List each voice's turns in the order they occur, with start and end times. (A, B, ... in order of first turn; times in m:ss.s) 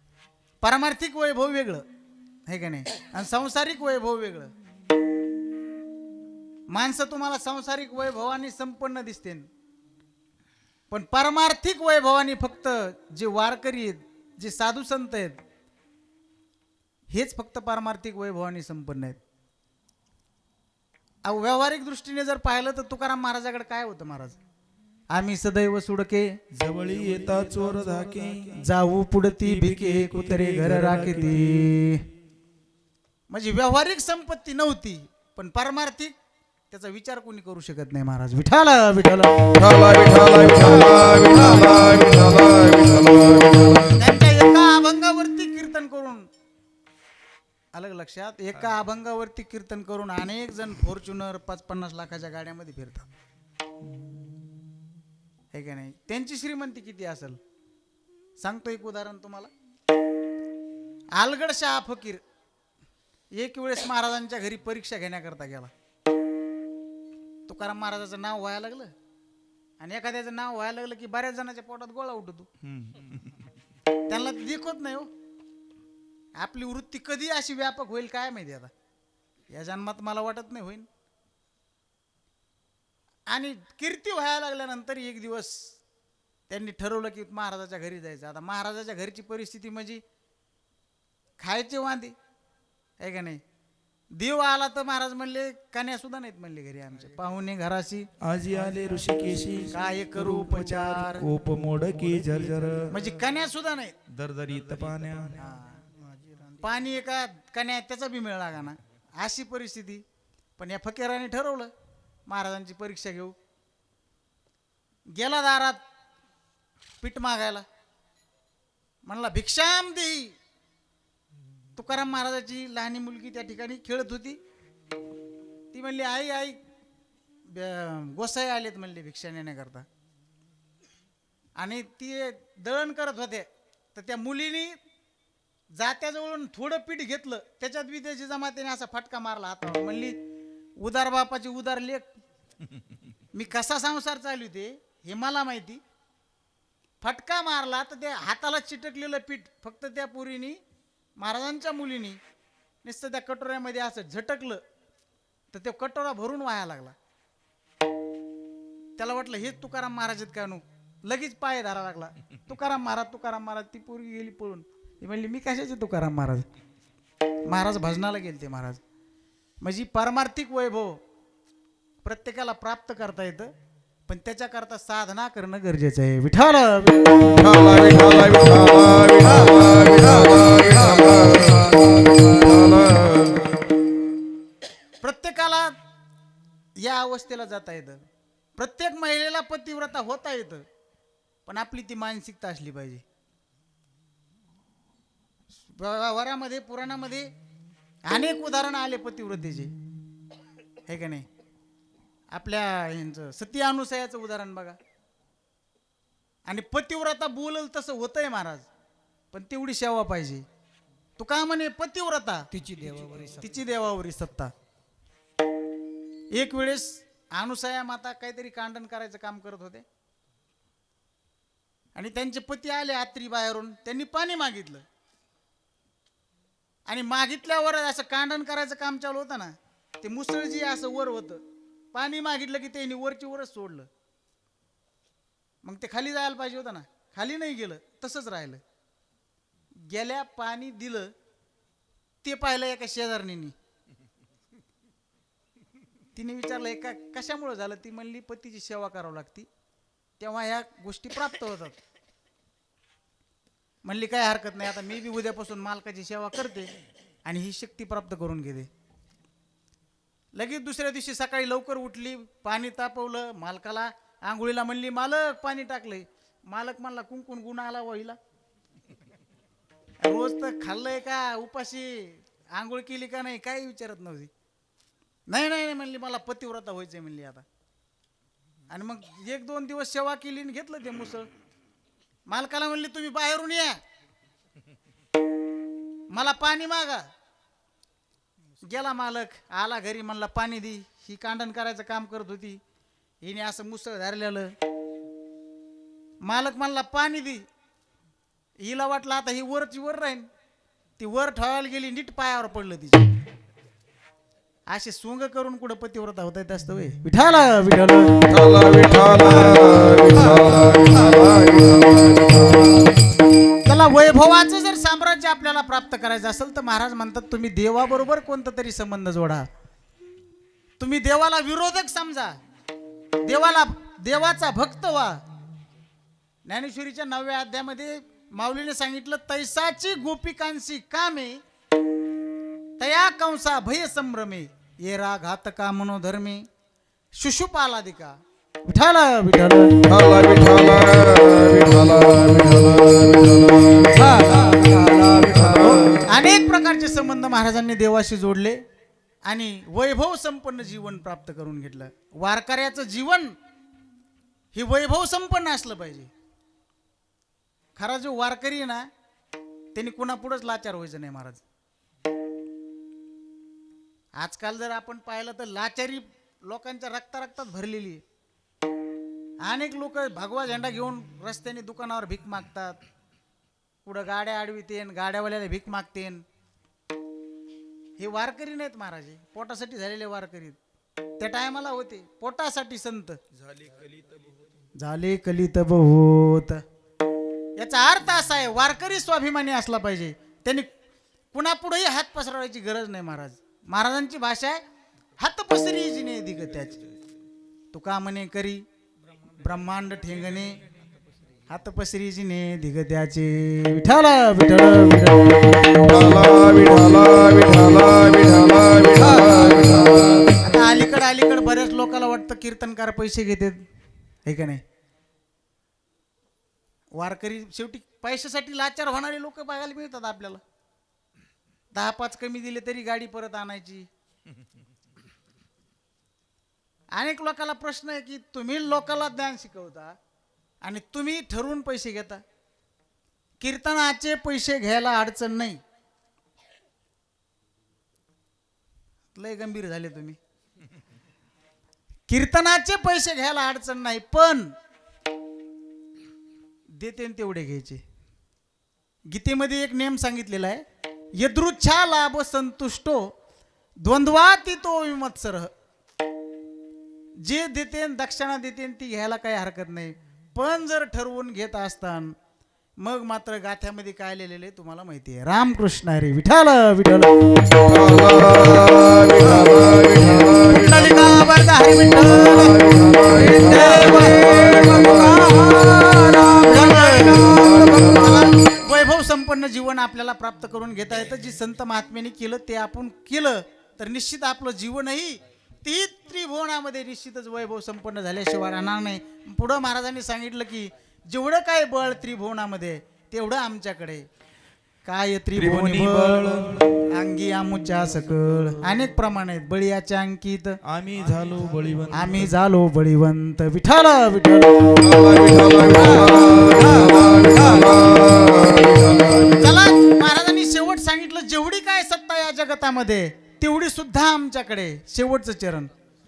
0:00.6-0:01.8 A
0:02.5-0:04.5 A
0:06.7-0:09.5 A
0:10.9-0:15.4 A
0:17.1-0:19.2 A
0:21.2-0:24.4 A
0:25.1-0:26.4 A
0:26.5-0:28.7 B
0:28.6-0:32.1 A
0:29.4-0:31.8 B
0:33.3-0:36.2 A
0:36.7-0:39.5 A
0:39.6-0:44.0 B
0:40.9-0:42.2 C
0:43.8-0:46.3 A
0:47.7-0:53.1 A
0:55.5-0:57.4 A
0:58.4-0:59.5 A
1:01.2-1:02.2 A
1:03.3-1:05.7 A
1:07.5-1:08.9 A
1:09.8-1:12.5 A
1:12.8-1:13.4 B
1:14.1-1:15.1 A
1:16.4-1:18.7 A
1:19.5-1:20.9 A
1:23.3-1:25.8 A
1:26.5-1:30.0 A
1:31.4-1:32.2 A
1:33.0-1:33.4 A
1:34.2-1:38.1 A
1:38.2-1:43.0 B
1:39.7-1:41.3 A
1:42.9-1:44.0 A
1:44.1-1:45.5 B
1:45.4-1:45.8 A
1:46.6-1:50.0 A
1:50.6-1:51.7 A
1:52.3-1:53.3 A
1:55.2-1:55.8 A
1:57.0-1:57.7 A
1:59.0-2:00.4 A
2:01.8-2:04.4 A
2:05.7-2:06.6 A
2:07.5-2:09.9 A
2:11.6-2:14.8 A
2:15.8-2:20.2 A
2:20.8-2:22.1 A
2:23.3-2:25.8 A
2:27.0-2:30.6 A
2:31.2-2:32.2 A
2:32.8-2:34.6 A
2:35.5-2:37.0 A
2:39.0-2:46.5 A
2:47.5-2:48.8 A
2:49.6-2:51.0 A
2:52.0-2:53.5 A
2:54.1-2:57.3 A
2:57.3-3:01.7 B
3:00.3-3:01.6 C
3:02.3-3:03.5 B
3:05.0-3:05.8 A
3:06.8-3:08.0 A
3:08.6-3:10.7 A
3:11.5-3:13.0 A
3:15.5-3:17.3 A
3:18.1-3:19.7 A
3:20.9-3:21.3 A
3:22.3-3:24.8 A
3:26.5-3:28.7 A
3:29.3-3:30.5 A
3:31.2-3:32.5 A
3:32.5-3:33.4 C
3:33.2-3:34.5 A
3:36.3-3:39.8 A
3:42.0-3:44.9 A
3:46.9-3:53.9 A
3:55.6-3:58.6 A
3:59.8-4:01.1 A
4:02.2-4:03.6 A
4:06.1-4:09.5 A
4:10.2-4:11.8 A
4:13.8-4:16.7 A
4:17.2-4:18.7 A
4:20.4-4:28.2 A
4:30.0-4:34.3 A
4:35.3-4:37.5 A
4:38.7-4:41.3 A
4:42.3-4:43.8 A
4:46.1-4:47.1 A
4:48.6-4:52.6 A
4:53.2-4:54.5 A
4:56.2-4:57.4 A
4:58.6-5:00.3 A
5:01.0-5:03.1 A
5:04.7-5:08.2 A
5:08.3-5:12.7 B
5:10.3-5:11.2 C
5:13.6-5:19.5 A
5:20.8-5:22.4 A
5:23.2-5:25.2 A
5:26.5-5:31.4 A
5:32.8-5:36.5 A
5:37.2-5:39.8 A
5:39.8-5:46.1 B
5:44.0-5:45.6 C
5:45.7-5:48.6 A
5:49.2-5:53.4 A
5:54.5-5:56.1 A
5:57.8-5:58.9 A
5:59.7-6:01.4 A
6:04.2-6:08.0 A
6:09.4-6:12.8 A
6:13.8-6:16.2 A
6:18.0-6:20.6 A
6:21.2-6:23.2 A
6:24.8-6:26.6 A
6:27.6-6:30.7 A
6:31.3-6:34.6 A
6:35.2-6:36.9 A
6:37.7-6:38.6 A
6:39.3-6:40.6 A
6:41.5-6:45.6 A
6:45.8-6:50.3 B
6:49.2-6:49.8 C
6:50.3-6:53.6 A
6:54.3-6:54.6 A
6:57.0-7:00.4 A
7:01.7-7:03.9 A
7:06.9-7:10.0 A
7:10.6-7:12.2 A
7:13.4-7:15.6 A
7:19.2-7:20.2 A
7:22.1-7:24.5 A
7:26.7-7:27.8 A
7:29.1-7:30.6 A
7:31.2-7:33.1 A
7:33.8-7:35.5 A
7:37.2-7:42.2 A
7:42.8-7:47.1 A
7:47.6-7:51.1 B
7:50.4-7:54.8 A
7:52.3-7:55.3 B
7:53.2-7:58.0 C
7:56.4-8:14.1 A
7:57.3-7:58.1 B
8:14.8-8:20.6 A
8:15.4-8:16.9 B
8:20.6-8:22.3 B
8:21.9-8:24.8 A
8:24.8-8:29.7 B
8:25.7-8:27.8 C
8:29.3-8:35.7 A